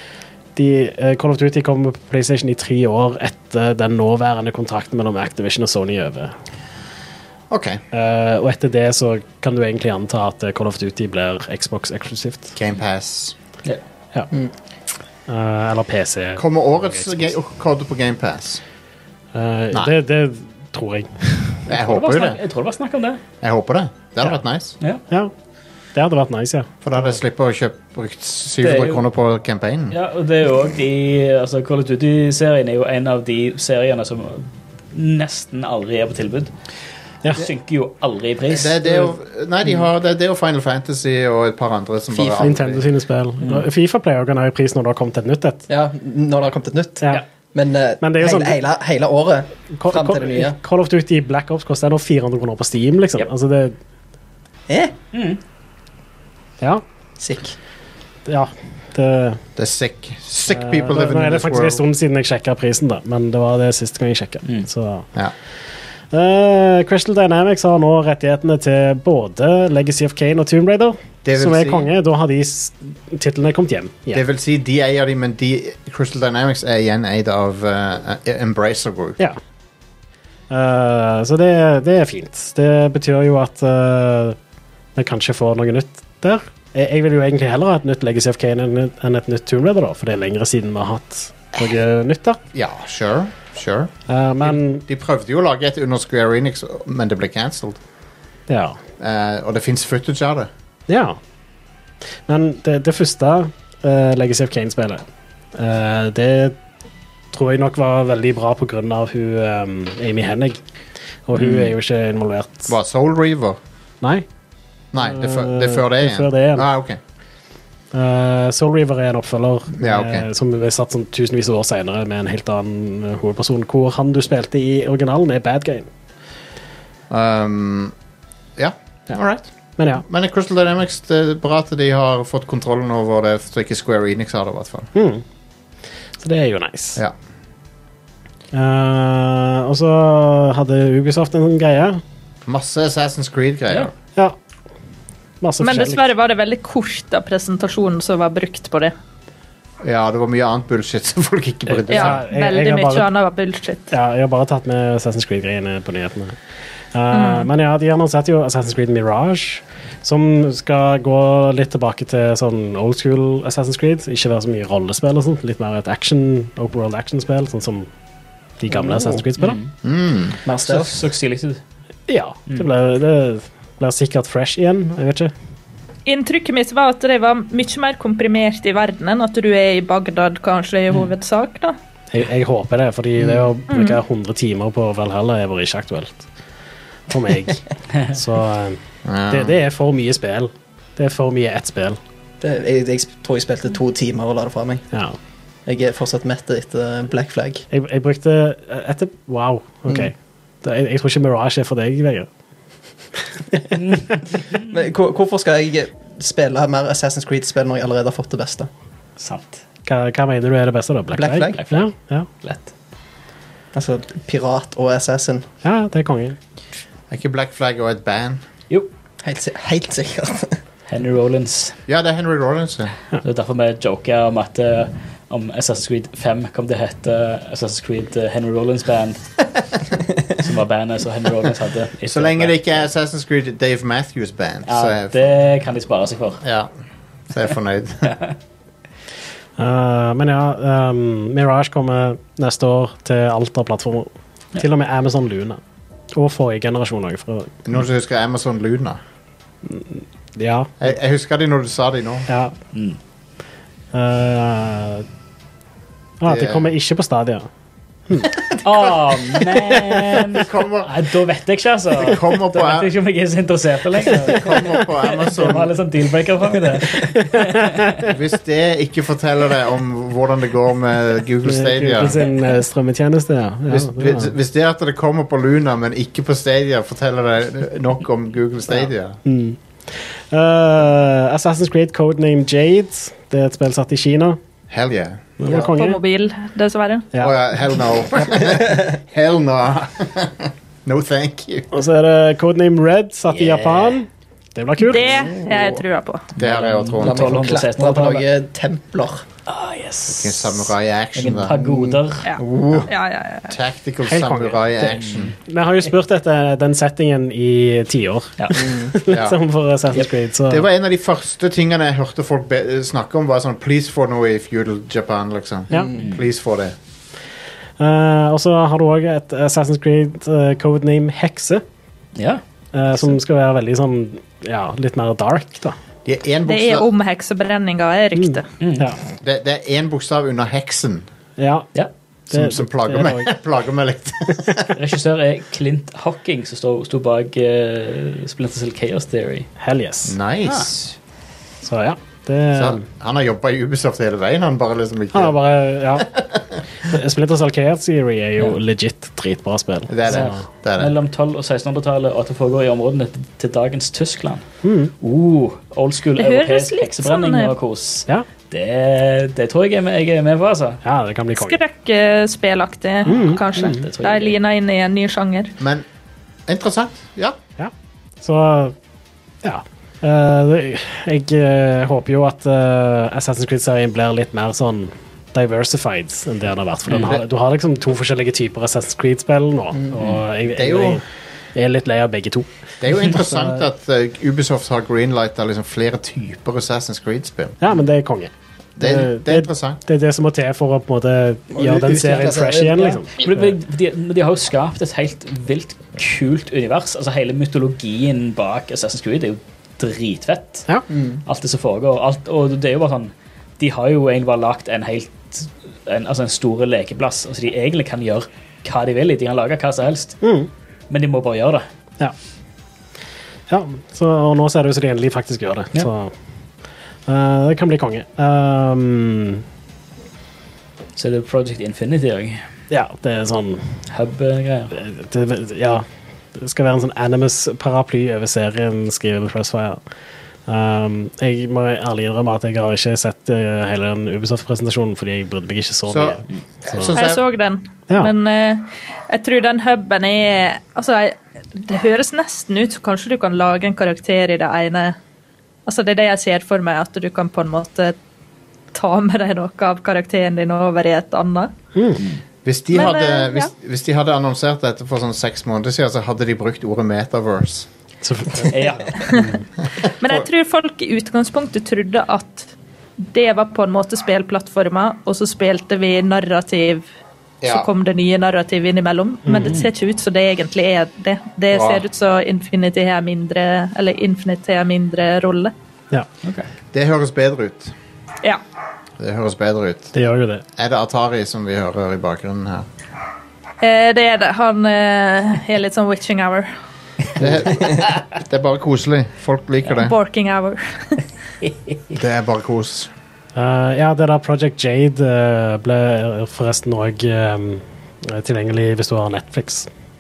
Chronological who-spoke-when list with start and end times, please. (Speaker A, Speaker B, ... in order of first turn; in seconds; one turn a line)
Speaker A: 0.6-6.3
Speaker B: 7.5-7.8
Speaker A: 7.9-12.5
Speaker B: 12.6-13.4
Speaker A: 15.3-17.2
Speaker B: 16.4-18.6
Speaker A: 19.3-21.6
Speaker B: 21.7-22.4
Speaker C: 21.8-23.2
Speaker B: 23.4-24.8
Speaker A: 25.9-26.7
Speaker B: 26.8-30.0
Speaker C: 28.6-29.0
Speaker C: 29.9-36.5
Speaker C: 37.3-39.1
Speaker B: 38.5-42.8
Speaker A: 42.4-45.7
Speaker D: 45.7-50.6
Speaker A: 48.0-48.6
Speaker A: 49.8-53.8
Speaker D: 54.7-54.9
Speaker C: 55.1-55.4
Speaker D: 57.2-57.6
Speaker A: 58.3-59.4
Speaker B: 59.6-61.8
Speaker A: 60.5-65.1
Speaker A: 66.1-74.2
Speaker B: 71.2-71.9
Speaker B: 74.1-79.2
Speaker A: 80.5-84.4
Speaker A: 85.0-92.4
Speaker B: 92.5-97.8
Speaker A: 94.1-94.8
Speaker A: 98.5-98.8
Speaker B: 99.0-100.5
Speaker A: 100.9-101.2
Speaker A: 102.3-106.6
Speaker A: 107.3-110.6
Speaker A: 111.3-112.7
Speaker C: 111.4-111.7
Speaker B: 112.7-113.6
Speaker B: 114.9-117.0
Speaker A: 115.0-116.7
Speaker A: 117.9-125.9
Speaker B: 119.8-120.3
Speaker B: 127.1-127.9
Speaker B: 128.6-134.9
Speaker A: 129.8-130.0
Speaker A: 134.9-135.2
Speaker A: 136.2-137.0
Speaker A: 138.5-142.0
Speaker B: 142.5-143.9
Speaker A: 145.4-146.1
Speaker E: 145.6-148.9
Speaker B: 149.8-152.2
Speaker E: 151.9-153.9
Speaker A: 151.9-153.1
Speaker A: 153.9-156.4
Speaker A: 156.9-167.9
Speaker E: 157.1-157.5
Speaker A: 168.6-169.6
Speaker C: 169.4-169.7
Speaker B: 169.8-170.4
Speaker D: 170.5-171.0
Speaker C: 170.5-171.6
Speaker A: 172.1-175.3
Speaker E: 176.1-181.8
Speaker A: 182.1-186.3
Speaker E: 183.7-184.0
Speaker A: 187.1-192.0
Speaker B: 189.1-189.6
Speaker D: 192.4-194.9
Speaker A: 194.9-195.2
Speaker D: 195.7-197.7
Speaker A: 197.7-202.3
Speaker C: 203.8-204.1
Speaker D: 204.7-208.7
Speaker C: 209.2-209.6
Speaker A: 209.9-212.3
Speaker D: 211.1-211.6
Speaker C: 211.5-211.9
Speaker C: 212.4-212.7
Speaker D: 213.7-215.5
Speaker A: 215.6-216.4
Speaker B: 217.1-218.4
Speaker D: 219.2-220.6
Speaker C: 220.9-221.8
Speaker B: 221.9-222.9
Speaker C: 223.2-229.3
Speaker C: 230.4-232.7
Speaker B: 232.1-235.3
Speaker C: 234.7-236.4
Speaker B: 236.4-236.7
Speaker B: 237.3-238.1
Speaker C: 238.1-238.3
Speaker A: 239.6-245.6
Speaker A: 246.1-247.5
Speaker B: 247.7-249.0
Speaker A: 249.7-250.7
Speaker B: 250.8-252.3
Speaker A: 252.3-252.5
Speaker C: 252.7-253.0
Speaker A: 253.9-255.1
Speaker A: 256.2-257.5
Speaker B: 256.3-256.7
Speaker B: 258.2-260.9
Speaker C: 258.6-267.9
Speaker B: 262.0-262.9
Speaker B: 264.2-265.7
Speaker B: 268.1-272.2
Speaker A: 271.4-274.3
Speaker B: 273.7-279.2
Speaker A: 279.2-284.4
Speaker B: 284.7-285.3
Speaker A: 285.4-286.0
Speaker E: 285.5-287.1
Speaker B: 287.2-291.7
Speaker D: 288.4-288.8
Speaker A: 291.7-295.1
Speaker C: 293.3-294.0
Speaker E: 294.8-296.3
Speaker D: 295.2-295.8
Speaker C: 296.4-298.2
Speaker B: 296.4-297.4
Speaker D: 297.0-299.2
Speaker C: 299.5-302.3
Speaker B: 300.1-301.6
Speaker D: 301.6-302.9
Speaker E: 302.2-303.5
Speaker B: 303.5-305.4
Speaker A: 304.1-304.9
Speaker C: 304.9-305.4
Speaker A: 305.5-310.7
Speaker D: 308.5-308.9
Speaker B: 309.1-309.4
Speaker B: 310.5-316.8
Speaker D: 315.7-316.0
Speaker A: 317.8-321.6
Speaker C: 322.2-322.4
Speaker A: 322.7-325.8
Speaker B: 326.1-326.9
Speaker E: 326.5-328.5
Speaker A: 328.2-329.0
Speaker C: 328.6-328.9
Speaker B: 329.2-331.1
Speaker A: 331.4-331.7
Speaker B: 332.3-334.7
Speaker A: 332.3-333.3
Speaker C: 334.8-339.5
Speaker A: 339.6-340.2
Speaker B: 340.1-340.7
Speaker C: 340.4-340.9
Speaker A: 341.6-342.9
Speaker B: 342.6-345.4
Speaker A: 345.1-346.1
Speaker B: 346.0-346.6
Speaker A: 346.9-350.4
Speaker B: 349.9-350.9
Speaker C: 350.1-354.4
Speaker A: 354.6-354.9
Speaker C: 355.0-360.8
Speaker E: 356.2-357.6
Speaker A: 360.8-361.6
Speaker E: 361.4-365.5
Speaker A: 363.1-363.8
Speaker C: 363.6-364.4
Speaker B: 365.6-365.9
Speaker B: 366.5-367.4
Speaker A: 367.6-368.8
Speaker A: 369.4-381.0
Speaker B: 380.5-381.0
Speaker A: 381.6-383.6
Speaker B: 382.8-387.6
Speaker A: 387.6-393.5
Speaker B: 388.8-389.8
Speaker D: 391.5-393.0
Speaker C: 393.2-400.7
Speaker D: 400.9-401.2
Speaker C: 401.2-410.2
Speaker A: 410.2-410.5
Speaker C: 410.9-411.6
Speaker A: 413.5-416.1
Speaker A: 417.1-419.4
Speaker C: 421.0-422.4
Speaker A: 422.7-423.6
Speaker C: 423.9-424.7
Speaker A: 424.7-425.9
Speaker A: 426.4-429.8
Speaker A: 430.5-436.9
Speaker B: 435.9-437.2
Speaker E: 436.9-445.0
Speaker E: 445.7-448.0
Speaker E: 448.7-451.5
Speaker A: 451.8-452.0
Speaker B: 452.4-457.7
Speaker E: 452.7-453.5
Speaker A: 458.0-459.4
Speaker C: 458.5-459.0
Speaker E: 459.0-459.3
Speaker B: 459.8-460.3
Speaker E: 460.0-466.9
Speaker B: 467.4-467.7
Speaker E: 467.4-475.5
Speaker A: 469.3-469.5
Speaker B: 471.5-471.8
Speaker B: 476.7-477.7
Speaker B: 479.0-479.9
Speaker A: 479.9-480.4
Speaker B: 480.6-482.7
Speaker E: 483.6-486.5
Speaker B: 487.2-489.9
Speaker E: 489.7-491.0
Speaker B: 491.9-492.9
Speaker A: 493.4-499.7